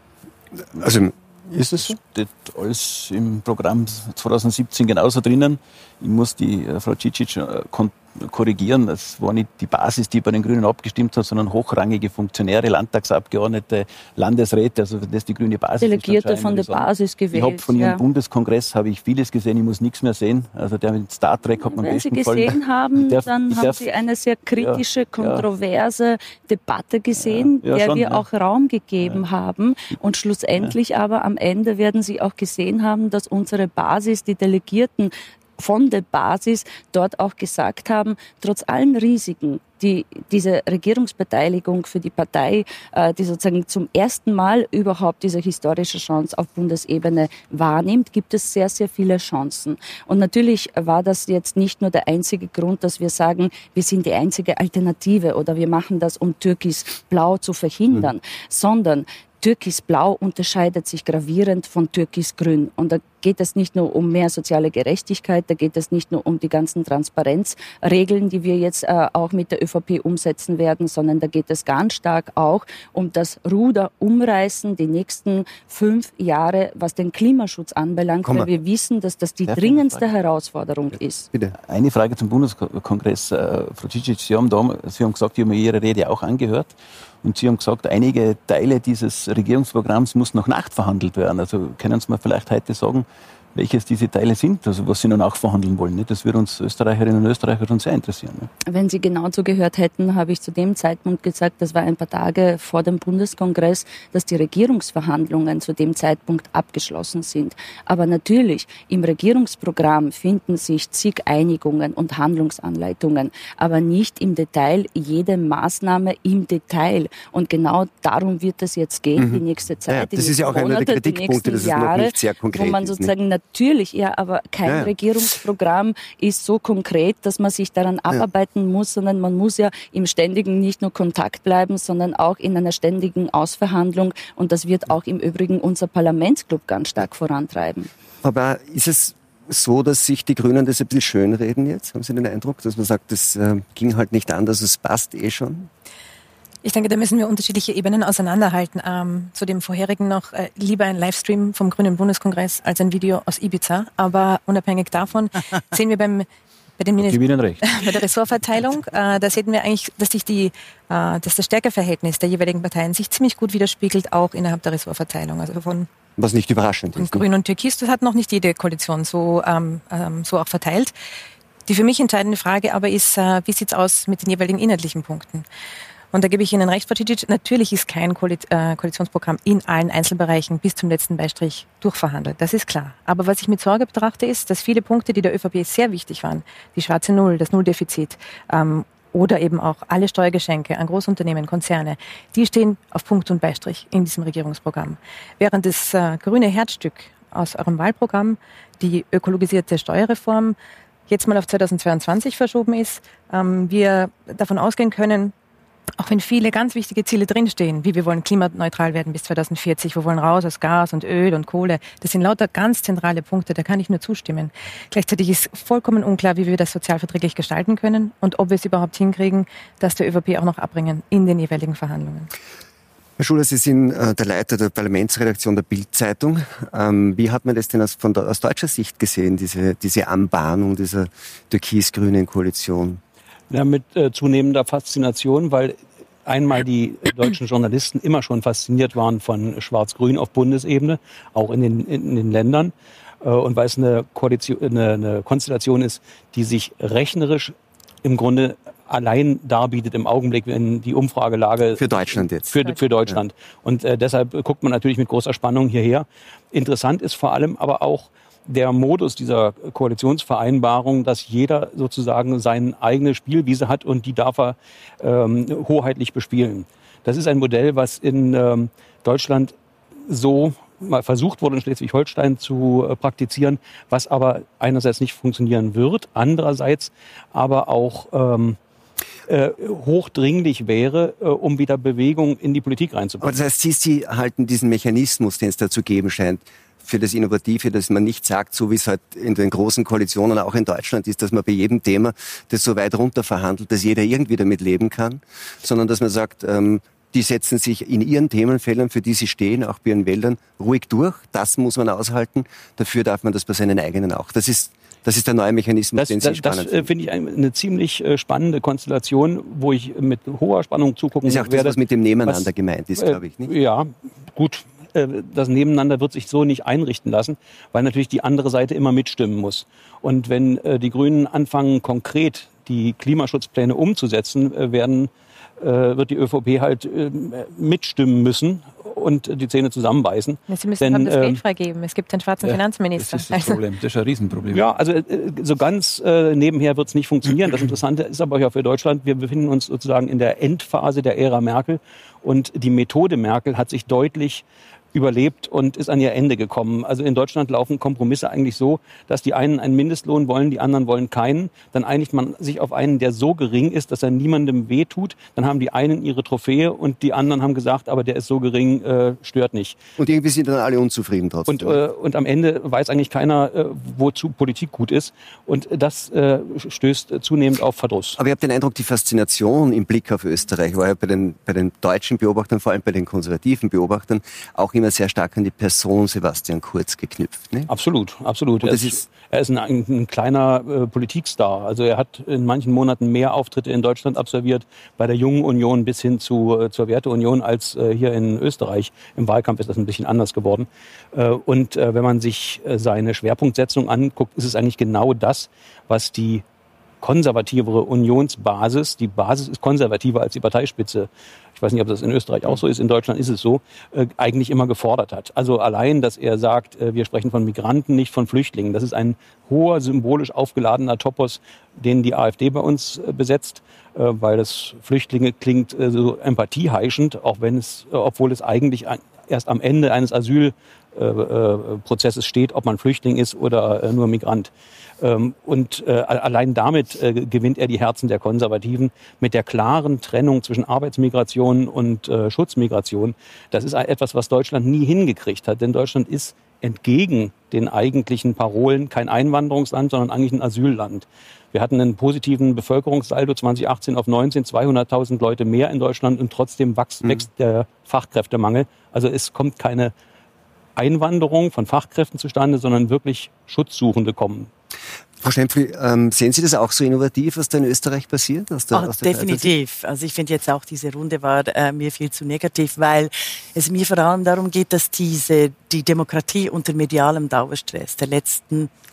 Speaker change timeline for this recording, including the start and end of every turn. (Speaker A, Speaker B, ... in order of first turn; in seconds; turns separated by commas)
Speaker A: 0.7-1.9, Speaker B: 1.6-23.8, Speaker C: 15.8-18.0, Speaker C: 21.7-81.3, Speaker B: 24.5-25.4, Speaker B: 27.2-28.2, Speaker B: 79.5-80.0, Speaker B: 81.6-98.5, Speaker C: 98.7-137.9, Speaker A: 119.2-123.1, Speaker A: 124.6-124.9, Speaker A: 138.2-145.7, Speaker D: 146.6-156.3, Speaker D: 156.8-165.9, Speaker B: 157.0-158.0, Speaker A: 166.2-167.2, Speaker D: 166.9-170.9, Speaker D: 171.7-175.4, Speaker D: 176.1-200.6, Speaker D: 201.1-205.3, Speaker D: 206.0-222.3, Speaker A: 223.2-233.0, Speaker E: 233.5-269.5, Speaker A: 251.7-253.2, Speaker E: 270.1-278.6, Speaker E: 279.3-283.4, Speaker A: 283.2-306.9, Speaker E: 306.0-331.4, Speaker A: 311.2-313.5, Speaker D: 330.5-333.6, Speaker B: 332.4-334.7, Speaker E: 334.5-359.8, Speaker A: 360.0-361.8, Speaker E: 361.5-368.2, Speaker A: 368.1-377.7, Speaker E: 377.7-396.4, Speaker A: 378.6-379.0, Speaker E: 397.0-424.5, Speaker E: 425.0-449.9, Speaker E: 450.8-454.5, Speaker A: 455.2-459.5, Speaker F: 458.7-468.7